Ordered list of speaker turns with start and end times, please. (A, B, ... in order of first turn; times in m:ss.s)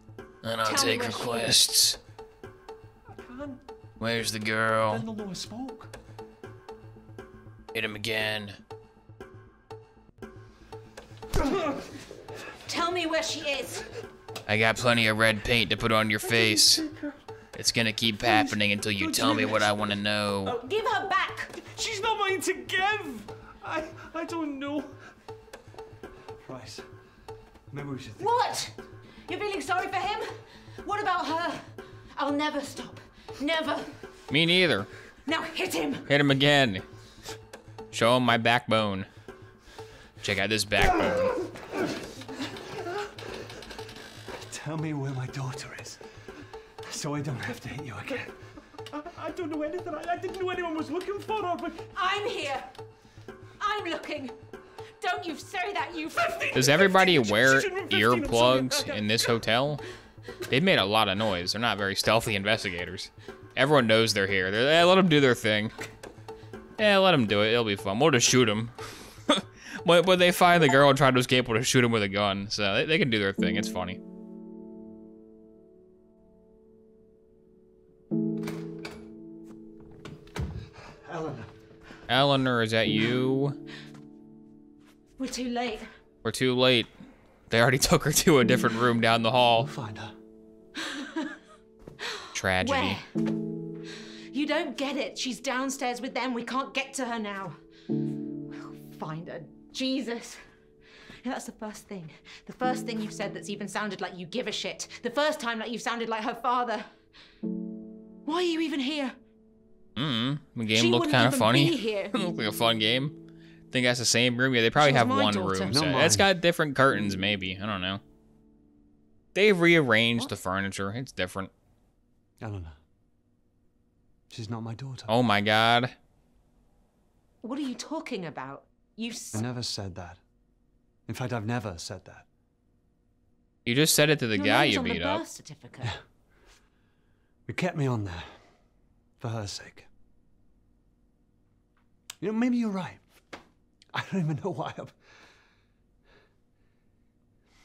0:00.4-0:02.0 A
0:00.6-0:01.6 B
0:03.2-0:03.6 C
0:04.0-0:05.0 A
0:04.9-0:05.9 C
0:07.7-0:08.6 A
0:11.5-0:11.8 C
0:12.7-0:13.9 B
0:14.5-0:16.8 A
0:16.2-0:17.1 C
0:17.5-0:20.6 A
0:18.2-0:20.0 C
0:20.5-0:21.6 B
0:21.6-0:25.0 C
0:26.4-0:26.9 D
0:27.7-0:28.5 D
0:28.2-0:28.8 B
0:29.3-0:33.9 B
0:34.3-0:34.9 A
0:35.3-0:36.1 B
0:36.1-0:36.8 A
0:37.9-0:39.1 A
0:40.2-0:41.3 A
0:44.4-0:46.0 D
0:46.8-0:48.3 D
0:48.9-0:51.9 C
0:51.9-0:52.7 B
0:53.6-0:54.3 B
0:55.0-0:56.8 B
0:56.2-0:59.4 C
0:56.5-0:59.8 A
1:00.5-1:05.8 A
1:06.8-1:14.0 A
1:21.0-1:21.5 D
1:22.1-1:23.6 A
1:25.2-1:25.9 B
1:26.2-1:26.9 A
1:27.5-1:29.7 A
1:29.6-1:30.2 D
1:30.8-1:31.4 B
1:32.1-1:33.1 B
1:32.3-1:33.0 A
1:34.3-1:37.6 B
1:38.5-1:40.4 B
1:41.2-1:46.9 B
1:48.3-1:49.2 B
1:50.0-1:53.2 A
1:50.7-1:52.2 B
1:53.7-1:58.0 A
1:54.8-1:55.7 B
1:55.6-1:56.3 D
1:59.3-2:01.5 A
2:02.4-2:02.8 D
2:04.3-2:05.1 D
2:05.1-2:06.0 A
2:07.4-2:09.4 B
2:09.3-2:10.2 D
2:11.1-2:12.3 D
2:13.6-2:15.2 A
2:14.4-2:15.9 B
2:17.5-2:18.5 D
2:19.2-2:19.9 D
2:22.2-2:23.0 D
2:23.9-2:25.0 D